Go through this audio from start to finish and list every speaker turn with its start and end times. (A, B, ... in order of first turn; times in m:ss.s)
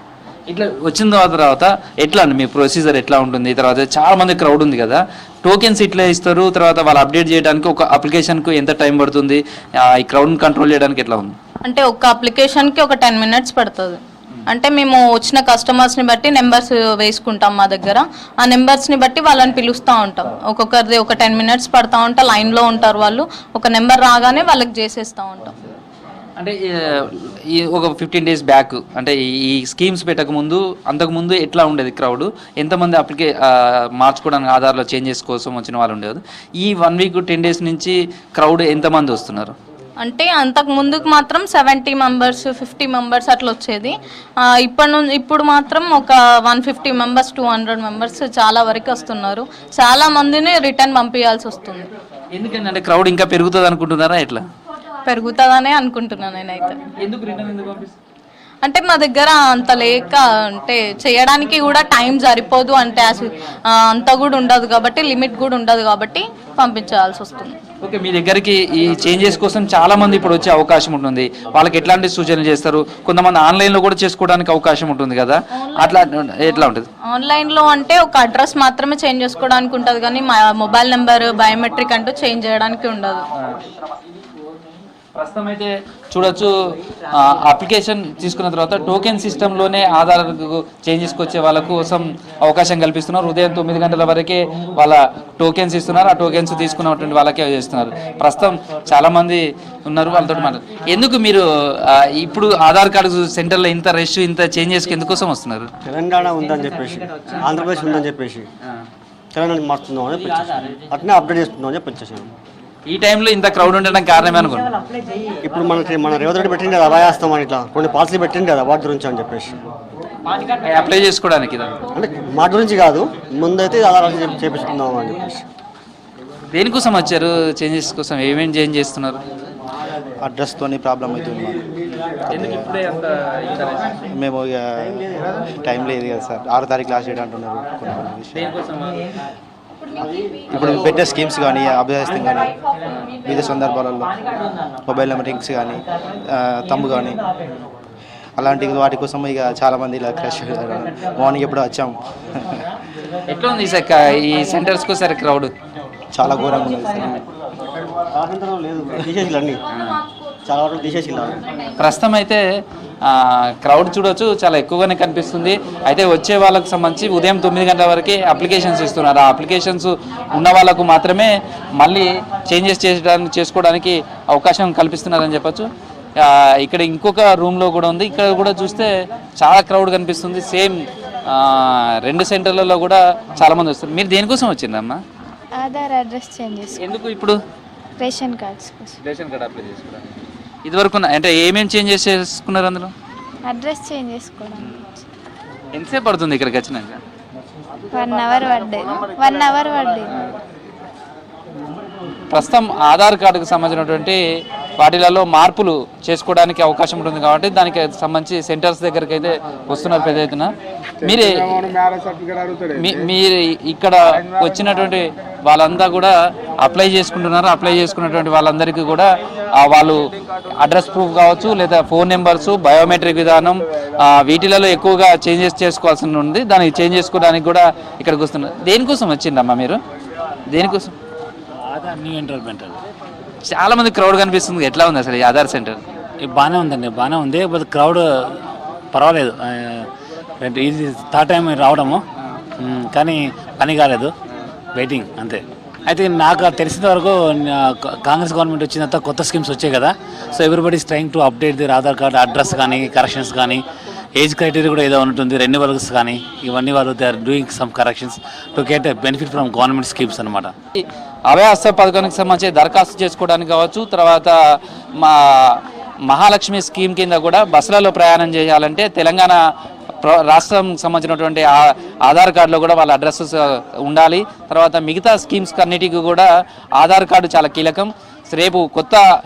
0:00.5-0:11.4 A
0:11.6-0:25.6 B
0:26.4-0:39.6 A
0:40.0-0:43.9 B
0:44.5-0:51.9 B
0:52.3-0:54.4 A
0:55.0-0:56.8 B
0:57.0-0:58.0 A
0:58.6-1:07.6 B
1:07.8-1:16.9 A
1:15.6-1:23.2 B
1:25.2-1:26.5 A
1:27.2-1:45.7 A
1:45.8-1:48.5 C
1:49.3-1:52.3 C
1:52.9-1:54.7 A
1:55.4-1:59.5 C
2:00.6-2:01.7 A
2:02.0-2:05.4 C
2:06.5-2:09.2 A
2:10.2-2:11.6 D
2:12.3-2:12.7 D
2:12.3-2:14.0 A
2:14.1-2:18.5 D
2:14.8-2:15.4 C
2:18.3-2:19.0 A
2:20.0-2:21.0 C
2:20.5-2:22.5 D
2:23.2-2:24.1 D
2:24.8-2:27.2 D
2:28.4-2:32.5 D
2:33.3-2:35.5 A
2:36.1-2:37.2 D
2:38.1-2:39.6 C
2:39.7-2:40.0 A
2:40.4-2:41.4 C
2:41.8-2:42.4 A
2:43.0-2:55.7 A
2:56.2-3:05.0 A
3:05.6-3:06.8 E
3:06.7-3:07.4 A
3:08.0-3:09.0 E
3:09.0-3:10.1 A
3:10.6-3:12.9 A
3:13.4-3:15.0 E
3:15.7-3:17.0 A
3:17.9-3:20.1 E
3:22.3-3:24.2 A
3:24.8-3:31.8 A
3:32.7-3:40.0 A
3:40.5-3:49.8 A
3:50.5-3:50.9 A
3:51.6-3:52.8 F
3:53.5-3:55.8 A
3:56.2-3:58.4 F
3:58.9-3:59.9 F
4:00.4-4:02.0 F
4:02.6-4:04.1 F
4:04.8-4:13.6 F
4:14.2-4:20.5 F
4:20.8-4:24.4 A
4:25.0-4:29.4 A
4:30.0-4:36.3 A
4:36.8-4:39.0 A